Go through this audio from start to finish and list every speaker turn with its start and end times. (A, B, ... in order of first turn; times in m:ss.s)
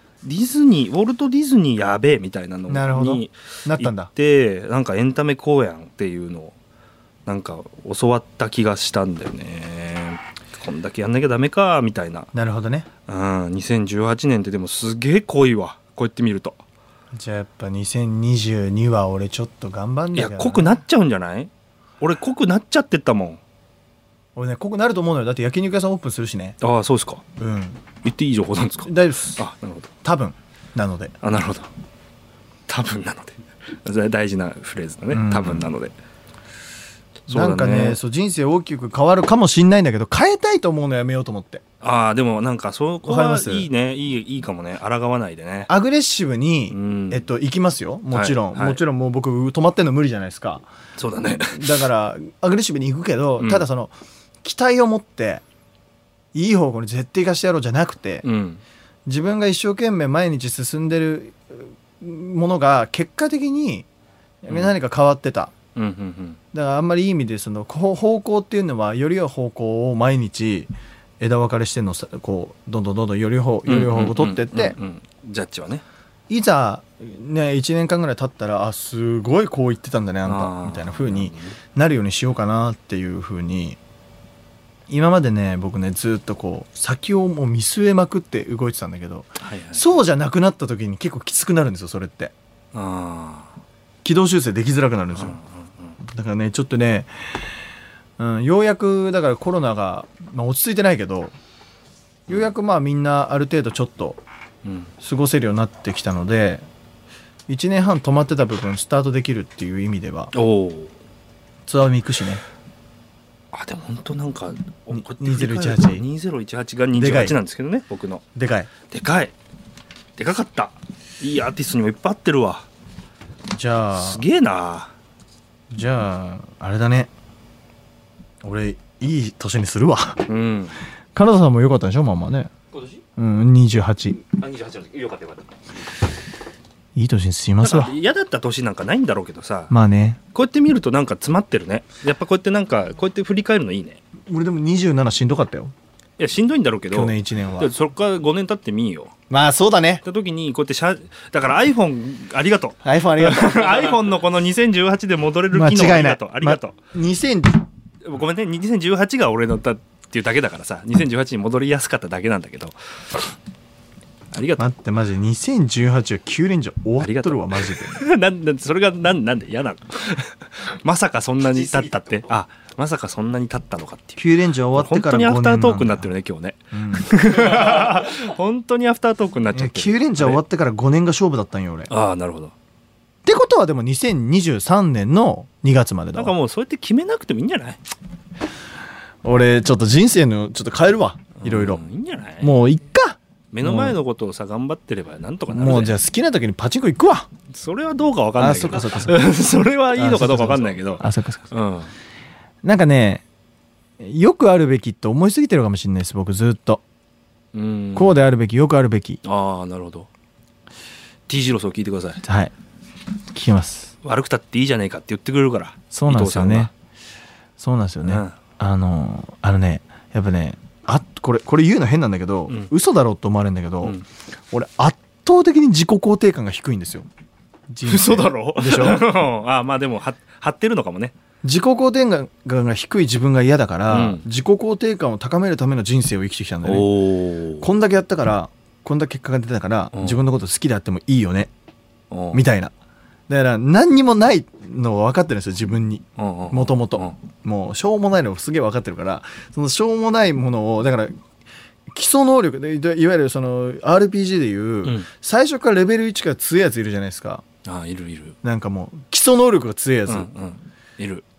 0:00.2-0:06.5 A
0:02.7-0:04.1 B
0:07.2-0:12.3 A
0:12.3-0:12.9 B
0:13.1-0:16.6 A
0:17.1-0:20.8 B
0:20.1-0:23.4 A
0:24.3-0:26.6 B
0:26.6-0:27.2 A
0:27.4-0:27.8 B
0:28.0-0:29.9 A
0:28.8-0:29.4 B
0:30.0-0:31.1 B
0:31.2-0:31.7 A
0:32.7-0:35.9 A
0:35.1-0:35.7 B
0:37.3-0:38.0 A
0:37.3-0:41.6 B
0:41.8-0:45.7 A
0:43.0-0:43.7 B
0:45.7-0:50.7 B
0:46.7-0:47.3 A
0:48.1-0:48.8 A
0:51.0-0:51.9 A
0:51.5-0:55.4 B
0:53.4-0:53.6 A
0:56.3-0:58.2 B
0:58.2-0:58.6 A
0:59.1-1:03.9 B
1:04.4-1:05.5 B
1:04.5-1:04.8 A
1:05.7-1:06.4 A
1:06.5-1:14.8 B
1:13.6-1:15.8 A
1:16.3-1:23.8 B
1:20.2-1:21.6 A
1:24.9-1:32.3 B
1:29.4-1:30.0 A
1:32.7-1:33.6 A
1:34.0-1:35.4 B
1:35.1-1:36.0 A
1:36.0-1:37.1 B
1:38.2-1:41.3 B
1:42.3-1:44.2 B
1:44.6-1:44.9 A
1:45.0-1:46.7 B
1:47.5-1:50.3 B
1:50.3-1:51.0 A
1:51.6-1:52.4 B
1:53.5-1:58.2 A
1:54.9-1:56.1 B
1:56.9-1:57.4 B
1:58.3-1:58.7 B
1:58.9-1:59.3 A
2:00.2-2:02.7 A
2:03.5-2:04.2 B
2:03.9-2:04.9 A
2:05.7-2:07.1 B
2:08.4-2:10.3 B
2:10.2-2:10.8 A
2:11.1-2:12.5 B
2:12.7-2:13.0 C
2:13.2-2:14.2 B
2:14.2-2:15.6 C
2:16.9-2:17.9 B
2:17.6-2:19.7 A
2:19.7-2:20.2 B
2:20.3-2:24.0 A
2:24.3-2:25.7 B
2:26.2-2:29.1 A
2:26.9-2:27.7 B
2:29.3-2:30.0 B
2:30.0-2:36.8 A
2:32.8-2:33.9 B
2:35.5-2:37.6 B
2:38.0-2:43.2 A
2:44.3-2:44.7 A
2:44.6-2:48.0 B
2:47.0-3:00.4 A
2:51.4-2:52.2 C
2:54.2-2:56.1 B
2:56.7-2:57.6 B
2:57.5-2:57.9 C
2:59.5-3:01.9 B
3:01.9-3:02.5 A
3:03.2-3:06.4 B
3:06.1-3:07.8 A
3:09.2-3:11.8 B
3:11.4-3:12.6 A
3:12.4-3:14.0 B
3:13.5-3:16.0 A
3:15.5-3:17.3 B
3:17.5-3:21.9 A
3:18.4-3:19.3 B
3:19.9-3:21.5 B
3:22.6-3:23.2 B
3:24.0-3:26.8 B
3:27.5-3:28.1 A
3:27.9-3:29.2 B
3:29.2-3:30.1 A
3:31.3-3:32.2 A
3:32.2-3:32.5 B
3:33.3-3:33.9 B
3:34.0-3:36.7 A
3:35.9-3:36.7 B
3:37.6-3:44.0 B
3:38.0-3:38.4 A
3:44.5-3:47.1 B
3:47.7-3:49.0 B
3:47.8-3:51.1 A
3:51.4-4:01.5 B
3:53.9-3:54.2 A
3:56.6-3:57.7 A
3:59.9-4:00.2 A
4:02.1-4:02.4 A
4:02.3-4:02.7 B
4:03.3-4:11.1 B
4:06.2-4:07.2 A
4:11.9-4:17.4 B
4:17.6-4:18.4 A
4:18.4-4:20.3 B
4:20.1-4:21.2 A